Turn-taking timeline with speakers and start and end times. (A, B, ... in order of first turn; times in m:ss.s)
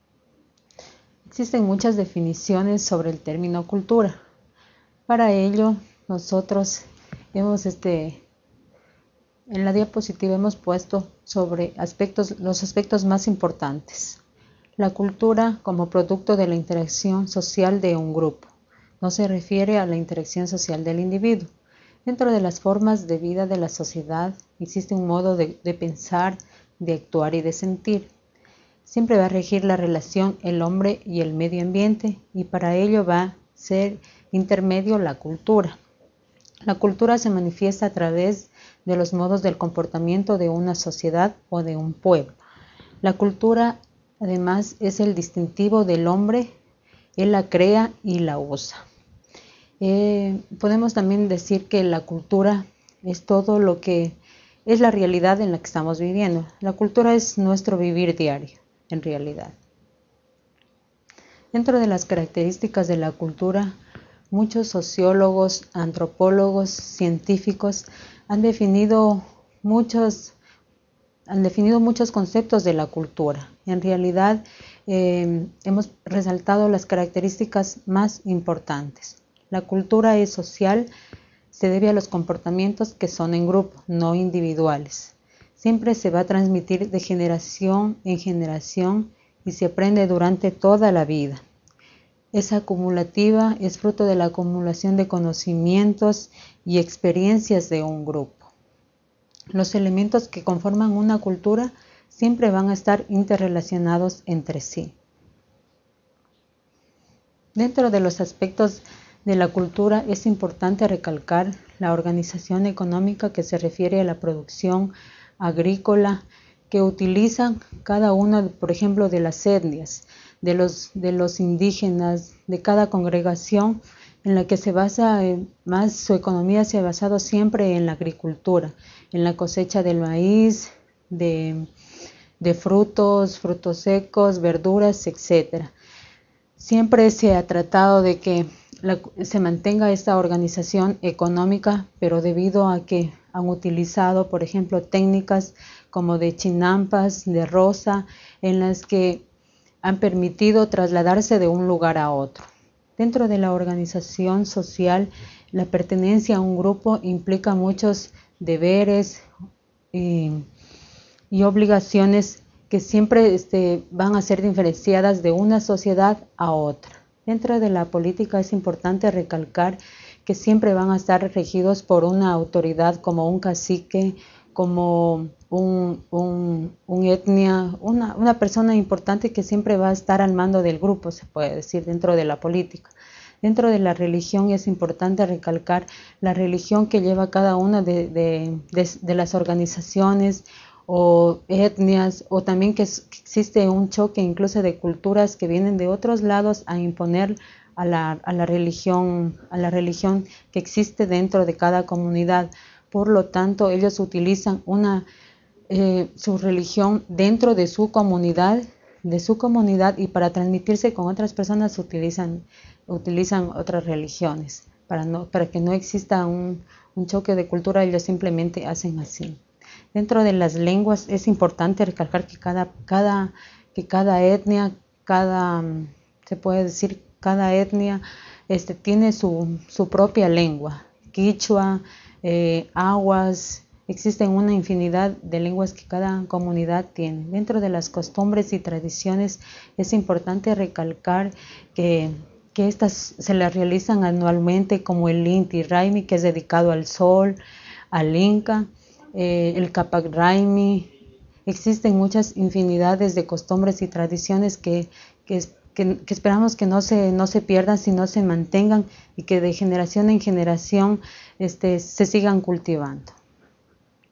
0:01.2-0:04.1 A
0:05.1-0:08.2 A
0:09.5-0:14.2 A
0:14.8-0:21.5 A
0:22.0-0:28.1 A
0:28.8-0:35.8 A
0:36.6-0:42.4 A
0:43.0-0:46.5 A
0:47.2-0:48.8 A
0:49.8-0:59.5 A
1:01.5-1:03.7 A
1:04.3-1:10.3 A
1:11.3-1:20.9 A
1:21.5-1:31.4 A
1:32.3-1:38.5 A
1:39.5-1:44.9 A
1:47.6-2:11.7 A
2:12.4-2:15.7 A
2:16.6-2:29.2 A
2:29.8-2:39.3 A
2:39.9-2:40.4 A
2:41.3-3:25.0 A
3:25.7-3:39.4 A
3:39.9-4:07.4 A
4:07.9-4:10.9 A
4:11.4-4:23.2 A